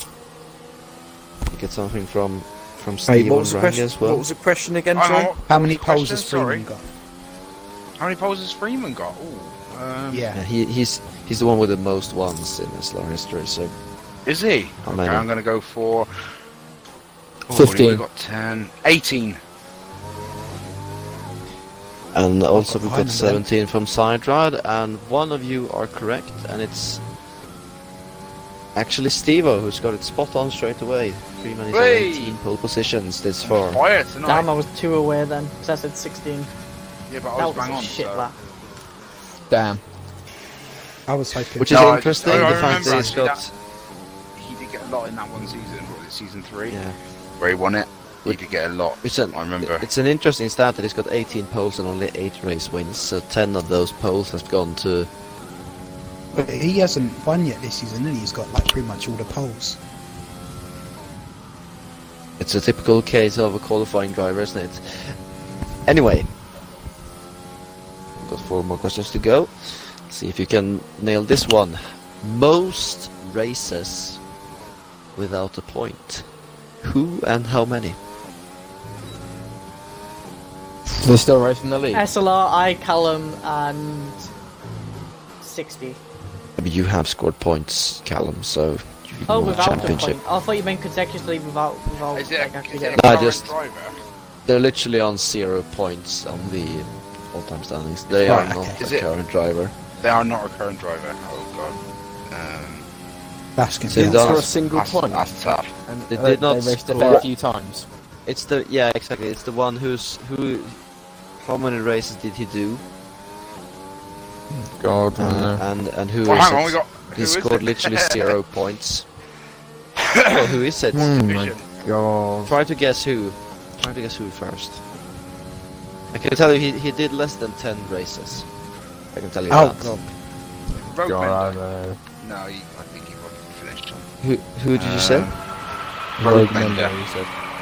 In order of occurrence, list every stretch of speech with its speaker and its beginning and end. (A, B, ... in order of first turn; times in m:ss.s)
0:01.5-0:04.2 A
0:03.0-0:05.4 B
0:04.9-0:06.6 C
0:05.5-0:06.8 D
0:08.0-0:10.3 C
0:10.1-0:10.4 D
0:10.3-0:13.7 A
0:14.2-0:16.1 C
0:14.8-0:15.3 A
0:17.5-0:19.4 C
0:17.5-0:18.0 B
0:22.1-0:27.0 A
0:22.5-0:23.4 D
0:28.7-0:33.8 A
0:31.7-0:32.4 C
0:33.4-0:34.5 C
0:34.2-0:36.5 E
0:37.1-0:38.3 C
0:37.4-0:38.4 E
0:39.5-0:39.8 B
0:41.1-0:43.0 D
0:41.6-0:43.5 A
0:41.7-0:43.4 C
0:44.4-0:46.8 C
0:46.7-0:47.0 A
0:47.4-0:49.8 C
0:49.0-0:55.1 A
0:56.3-0:59.8 D
1:02.4-1:05.1 A
1:05.9-1:06.3 A
1:08.2-1:14.2 A
1:15.2-1:16.2 A
1:16.8-1:18.0 A
1:20.9-1:22.0 B
1:21.9-1:24.2 E
1:25.4-1:26.0 E
1:26.6-1:30.2 A
1:29.3-1:33.2 E
1:29.5-1:30.1 B
1:32.1-1:34.0 C
1:32.9-1:33.5 A
1:34.4-1:39.7 A
1:38.2-1:38.8 D
1:38.2-1:39.1 C
1:40.0-1:41.8 C
1:42.3-1:42.8 C
1:43.6-1:44.4 D
1:43.9-1:44.5 A
1:44.0-1:47.9 B
1:44.0-1:45.7 C
1:46.1-1:47.3 A
1:48.2-1:50.8 A
1:51.4-1:52.8 A
1:54.5-1:55.6 B
1:55.2-1:59.0 A
1:56.2-1:58.3 C
2:00.0-2:00.6 C
2:00.3-2:01.1 A
2:00.9-2:02.6 B
2:01.1-2:01.7 C
2:02.4-2:04.8 A
2:06.1-2:08.4 A
2:09.1-2:10.1 A
2:09.5-2:10.0 D
2:10.7-2:11.6 C
2:11.0-2:12.0 B
2:12.2-2:14.0 C
2:14.2-2:15.3 A
2:14.7-2:15.4 C
2:16.2-2:17.3 B
2:16.2-2:17.0 C